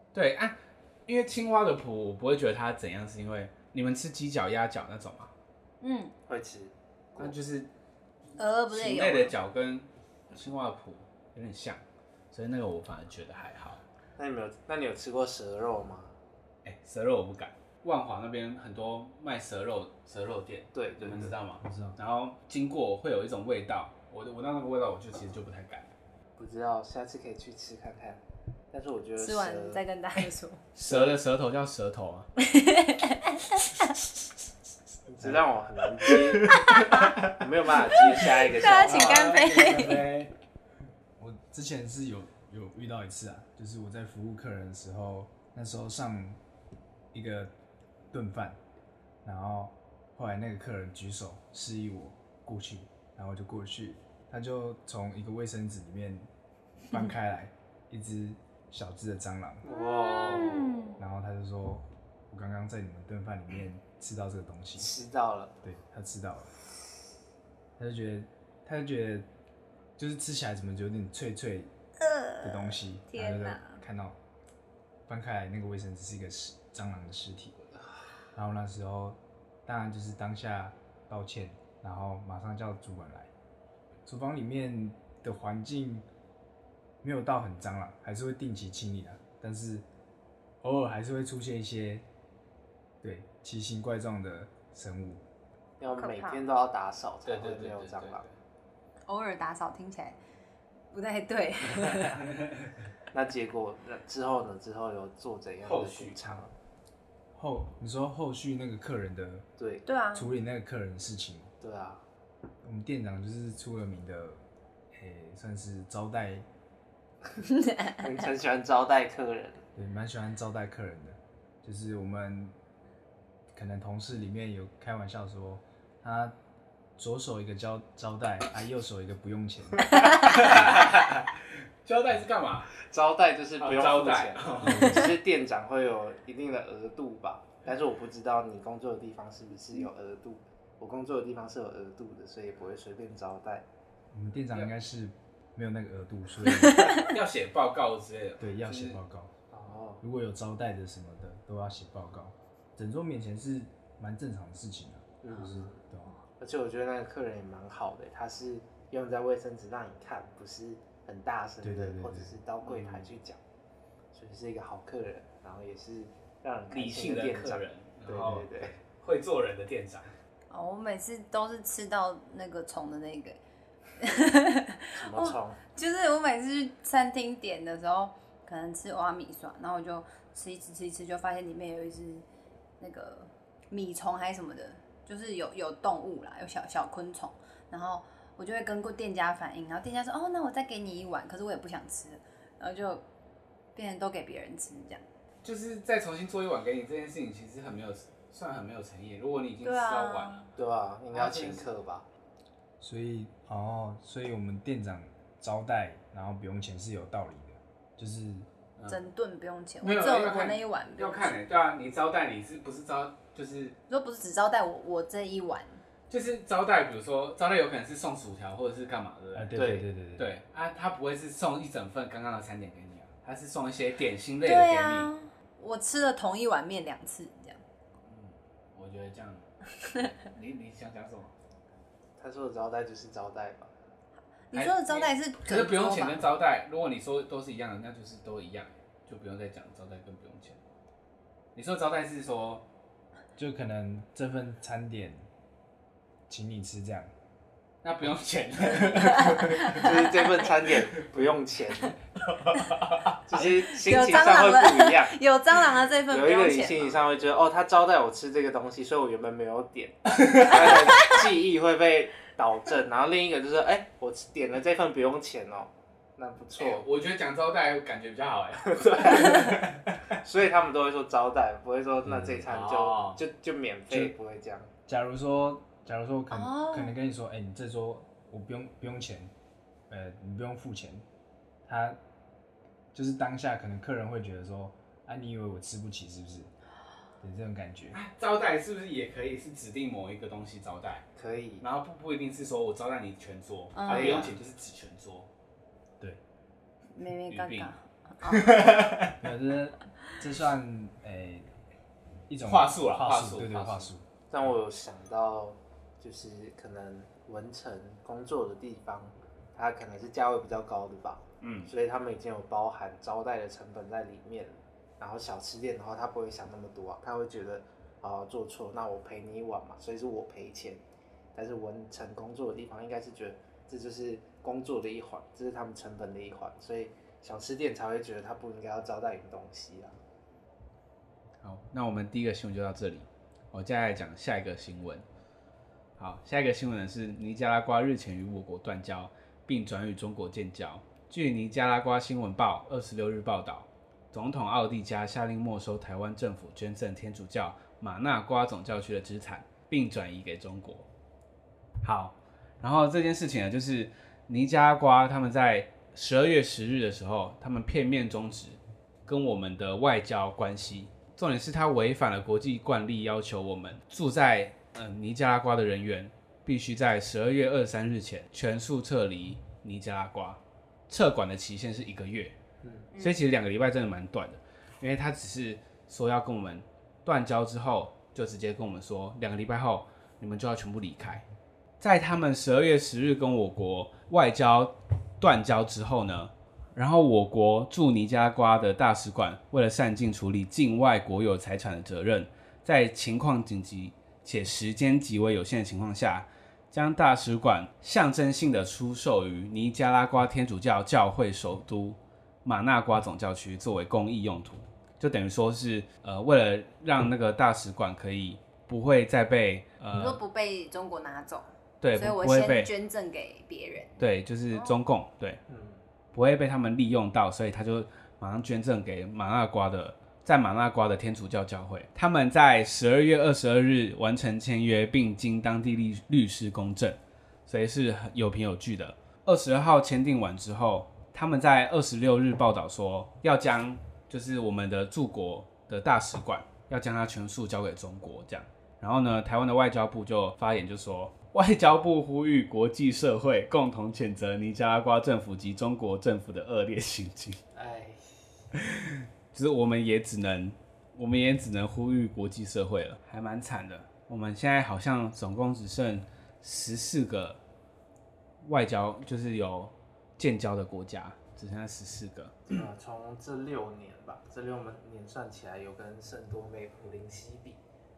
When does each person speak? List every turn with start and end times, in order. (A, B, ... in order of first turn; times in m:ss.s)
0:00.1-0:00.6 A
0:01.1-0:05.3 A
0:05.8-0:06.1 B
0:06.3-0:07.4 C
0:07.2-0:07.7 A
0:08.4-0:09.3 B
0:08.7-0:13.8 A
0:14.2-0:16.1 C
0:16.6-0:25.9 A
0:20.7-0:21.3 C
0:21.6-0:22.0 D
0:26.4-0:29.8 C
0:29.2-0:30.6 B
0:30.8-0:32.3 A
0:30.8-0:31.2 C
0:32.4-0:33.7 B
0:35.1-0:36.5 C
0:36.5-0:37.3 A
0:36.7-0:36.9 B
0:37.2-0:39.4 C
0:38.0-0:40.3 A
0:38.4-0:40.1 B
0:41.2-0:46.4 D
0:47.1-0:47.5 D
0:48.1-0:48.6 D
0:49.2-0:56.3 D
0:56.9-0:59.6 D
0:59.6-1:00.9 C
0:59.7-1:01.0 B
1:01.0-1:04.9 D
1:04.8-1:05.6 C
1:05.6-1:06.5 D
1:07.8-1:09.3 D
1:10.0-1:11.7 D
1:12.0-1:13.8 B
1:12.4-1:14.2 D
1:15.1-1:17.6 D
1:18.3-1:23.3 D
1:24.1-1:26.1 D
1:27.0-1:29.8 D
1:30.6-1:32.0 D
1:33.0-1:35.2 D
1:35.8-1:38.2 C
1:35.8-1:36.4 B
1:37.2-1:38.3 A
1:39.1-1:40.2 B
1:40.9-1:42.2 B
1:43.1-1:46.5 C
1:45.6-1:46.2 A
1:47.3-1:49.4 D
1:49.6-1:49.8 C
1:49.8-1:50.3 B
1:50.1-1:51.5 D
1:51.6-1:52.0 C
1:52.6-1:56.5 D
1:57.7-1:58.0 B
1:57.9-1:59.6 C
1:59.8-2:02.6 D
2:03.5-2:06.4 D
2:07.0-2:10.6 D
2:10.0-2:12.7 A
2:12.8-2:23.6 C
2:13.6-2:15.1 A
2:14.6-2:15.2 D
2:24.1-2:27.0 D
2:27.0-2:29.0 A
2:28.4-2:29.3 D
2:29.5-2:30.0 C
2:30.0-2:36.1 D
2:35.2-2:35.8 C
2:36.4-2:43.4 C
2:41.6-2:42.4 D
2:42.6-2:43.1 A
2:44.1-2:48.8 C
2:46.7-2:50.1 A
2:50.5-2:53.4 B
2:54.0-3:02.2 B
2:54.9-2:55.6 C
3:02.8-3:13.0 B
3:13.8-3:15.0 B
3:15.4-3:20.5 A
3:19.6-3:20.5 B
3:20.6-3:22.0 C
3:21.1-3:21.7 A
3:22.8-3:28.5 D
3:28.9-3:31.4 B
3:29.8-3:33.8 A
3:33.9-3:35.8 B
3:36.1-3:39.6 A
3:39.3-3:40.3 D
3:39.5-3:39.9 C
3:40.2-3:45.1 A
3:44.4-3:47.6 B
3:48.0-3:49.5 A
3:50.2-3:51.3 A
3:52.2-3:53.7 C
3:54.5-3:56.3 B
3:54.5-4:00.6 A
4:01.5-4:02.6 A
4:03.4-4:05.3 D
4:06.3-4:07.1 D
4:07.8-4:10.2 A
4:09.8-4:12.0 C
4:12.2-4:13.5 A
4:13.2-4:15.2 C
4:13.8-4:17.0 B
4:16.1-4:26.9 C
4:26.6-4:30.1 A
4:28.7-4:34.7 C
4:32.4-4:33.2 A
4:34.9-4:39.3 D
4:36.3-4:36.9 B
4:39.9-4:41.0 D
4:41.6-4:42.0 D
4:42.9-4:46.5 D
4:47.2-4:48.0 D
4:47.9-4:51.0 A
4:51.2-4:51.6 C
4:51.6-4:55.3 A
4:53.8-4:54.3 B
4:53.8-4:54.4 C
4:56.9-4:58.8 B
4:57.3-4:57.7 A
4:58.3-4:59.3 A
4:59.2-5:01.5 D
5:02.3-5:04.0 D
5:02.4-5:03.9 A
5:04.3-5:20.8 C
5:11.4-5:11.7 A
5:21.4-5:30.0 C
5:31.4-5:35.0 A
5:36.0-5:50.9 A
5:51.8-6:12.4 A
6:12.6-6:12.9 C
6:12.9-6:13.2 B
6:13.0-6:21.2 A
6:21.8-6:50.2 A
6:49.9-6:54.8 B
6:51.8-6:52.7 A
6:54.0-6:55.4 A
6:55.5-6:55.8 C
6:56.1-7:27.4 A
7:27.5-7:28.2 C
7:28.6-7:37.4 A
7:38.4-7:42.4 A
7:42.5-7:47.6 C